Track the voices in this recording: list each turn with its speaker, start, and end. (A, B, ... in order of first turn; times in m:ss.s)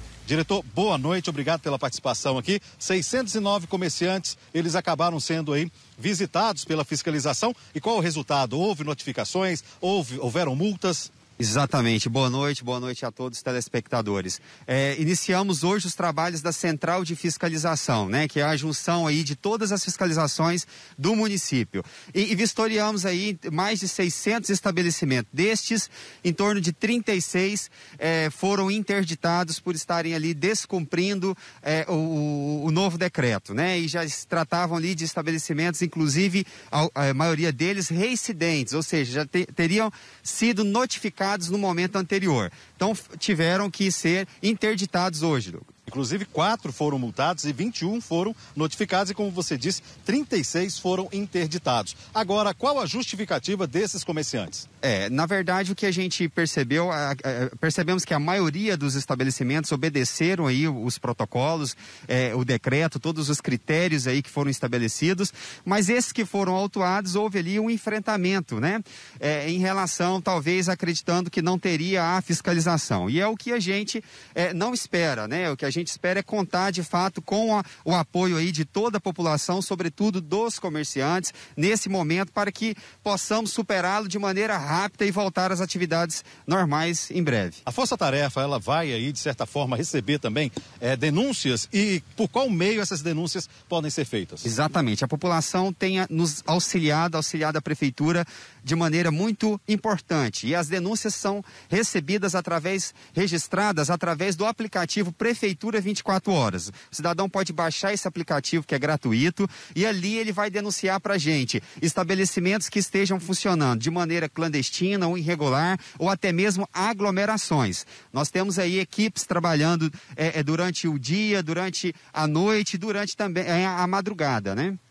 0:00.2-0:11.1 A
0:11.4-0:45.7 B
0:45.8-0:54.7 A
0:54.8-1:27.6 B
1:27.6-1:34.5 A
1:34.4-2:04.8 B